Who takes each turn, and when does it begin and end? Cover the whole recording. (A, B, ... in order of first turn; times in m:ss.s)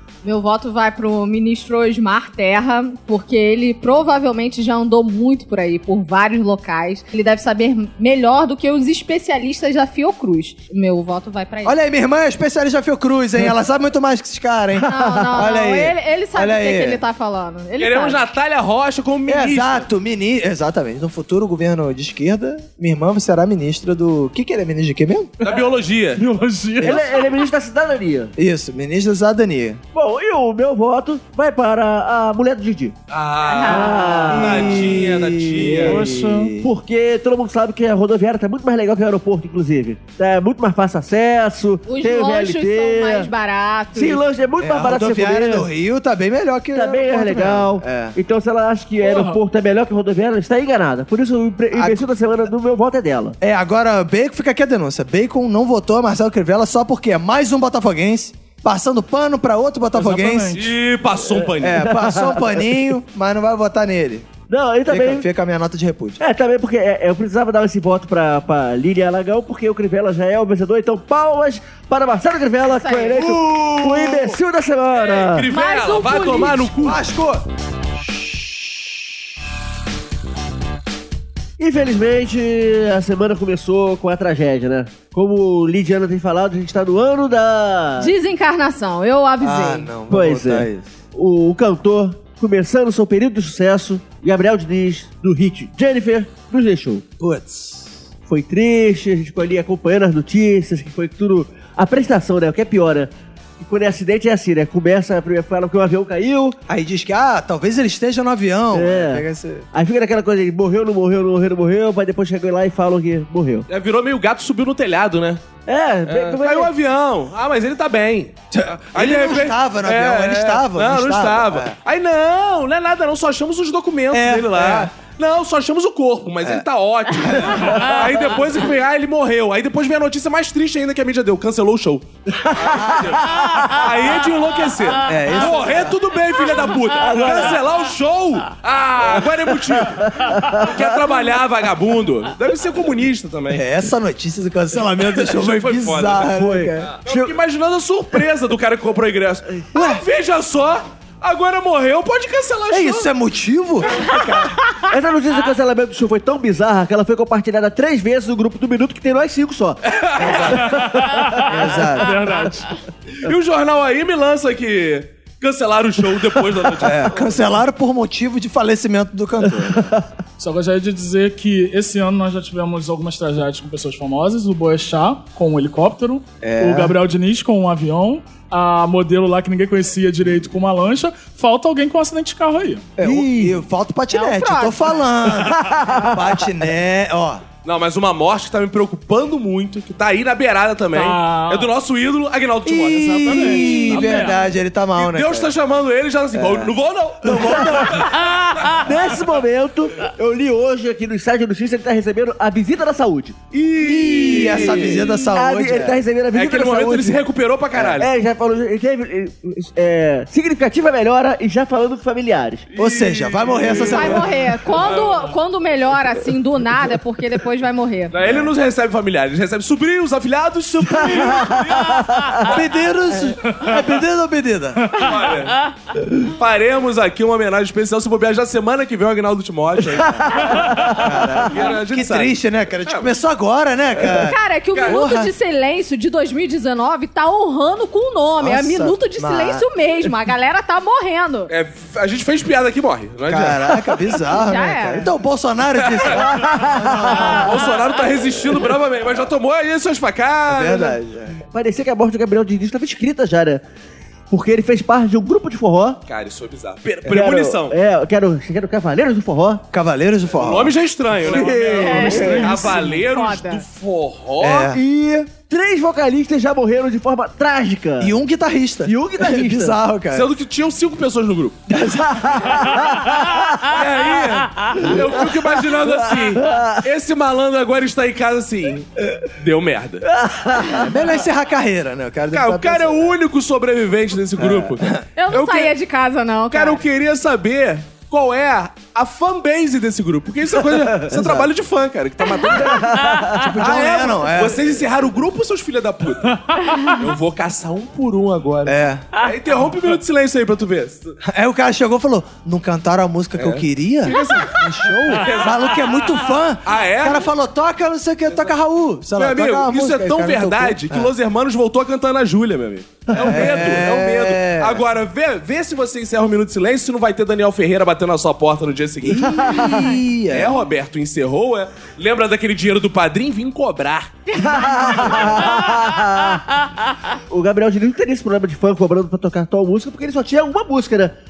0:00.2-0:11.8 A
0:11.6-0:17.0 B
0:14.8-0:18.3 A
0:14.9-0:15.2 C
0:17.8-0:19.9 D
0:19.3-0:25.3 B
0:25.4-0:26.2 D
0:26.2-0:27.2 E
0:26.8-0:28.3 C
0:28.4-0:29.8 B
0:29.9-0:33.0 C
0:33.1-0:36.0 D
0:33.4-0:34.1 A
0:33.6-0:35.0 C
0:34.3-0:36.7 B
0:35.6-0:43.3 C
0:35.7-0:36.5 E
0:41.9-0:44.2 A
0:43.9-0:45.7 C
0:44.6-0:48.2 B
0:46.7-0:53.4 C
0:49.0-0:49.4 E
0:51.7-0:52.1 B
0:53.4-1:00.6 B
0:59.9-1:00.7 E
1:00.5-1:01.9 D
1:01.3-1:02.7 C
1:01.6-1:04.3 B
1:04.5-1:05.3 C
1:04.9-1:06.2 B
1:06.2-1:15.5 C
1:12.7-1:13.2 A
1:13.2-1:14.4 B
1:14.9-1:17.0 D
1:15.5-1:16.8 A
1:16.8-1:17.4 B
1:21.6-1:28.1 C
1:28.0-1:30.0 A
1:29.4-1:30.9 B
1:30.1-1:37.0 C
1:37.2-1:37.9 B
1:38.3-1:46.6 C
1:46.7-1:49.7 B
1:48.7-1:53.7 C
1:53.7-1:55.4 D
1:55.7-1:56.7 C
1:56.1-2:23.7 D
1:58.5-2:01.8 B
2:04.1-2:04.9 B
2:07.2-2:07.9 B
2:12.3-2:13.8 C
2:15.0-2:16.0 B
2:17.0-2:17.6 C
2:19.8-2:20.9 C
2:23.5-2:26.9 B
2:25.1-2:26.3 D
2:26.3-2:27.3 C
2:26.9-2:33.1 D
2:29.7-2:30.0 B
2:32.7-2:34.6 B
2:34.9-2:39.8 C
2:39.8-2:40.7 D
2:40.2-2:40.8 B
2:40.5-2:41.5 C
2:40.7-2:42.7 E
2:41.4-2:42.2 B
2:43.2-2:47.3 D
2:46.8-2:50.0 B
2:49.7-2:50.0 C
2:50.4-3:02.9 E
2:56.4-2:57.0 B
3:03.0-3:07.4 B
3:03.0-3:03.6 C
3:04.1-3:05.0 A
3:05.3-3:06.4 C
3:07.6-3:14.2 D
3:10.9-3:11.7 E
3:12.7-3:15.5 B
3:13.1-3:14.4 E
3:15.0-3:18.9 D
3:16.4-3:16.7 B
3:17.2-3:18.2 B
3:17.3-3:18.1 C
3:18.7-3:23.4 C
3:23.5-3:25.3 D
3:23.8-3:26.0 B
3:24.1-3:27.2 C
3:26.3-3:28.1 D
3:27.8-3:32.7 C
3:32.7-3:35.3 D
3:32.8-3:34.4 B
3:33.6-3:34.0 E
3:33.8-3:38.1 A
3:38.1-3:42.2 D
3:38.2-3:38.5 B
3:40.9-3:42.5 C
3:42.5-3:44.9 B
3:44.9-3:53.1 D
3:50.0-3:51.1 C
3:50.5-3:55.3 B
3:54.1-4:01.5 A
3:54.7-3:55.0 D
3:58.4-3:59.7 B
4:01.5-4:04.0 D
4:03.3-4:07.7 B
4:04.3-4:05.1 A
4:05.8-4:06.2 D
4:06.1-4:07.5 C
4:07.0-4:11.0 D
4:10.5-4:11.4 B
4:11.5-4:13.6 C
4:14.3-4:16.0 C
4:16.1-4:17.8 D
4:17.1-4:19.6 C
4:19.7-4:20.7 B
4:20.3-4:24.7 D
4:21.2-4:22.6 C
4:21.2-4:23.0 E
4:21.7-4:23.6 A
4:24.4-4:24.8 B
4:24.7-4:28.2 C
4:28.0-4:30.3 B
4:28.9-4:29.8 C
4:30.1-4:31.6 D
4:31.7-4:32.9 B
4:32.1-4:33.7 C
4:33.6-4:40.1 D
4:34.8-4:36.8 C
4:40.1-4:40.9 C
4:40.7-4:43.2 B
4:42.3-4:45.7 D
4:44.4-4:45.0 B
4:45.2-4:46.8 A
4:46.5-5:01.2 D
4:51.1-4:51.5 B
4:52.5-4:53.5 C
4:53.3-4:54.6 B
4:58.7-4:59.1 B
5:01.2-5:11.1 B
5:03.4-5:05.9 D
5:06.6-5:07.3 D
5:09.2-5:24.2 D
5:13.1-5:14.8 B
5:19.0-5:20.6 B
5:24.3-5:25.7 A
5:24.4-5:26.4 C
5:24.9-5:25.4 D
5:27.3-5:31.1 C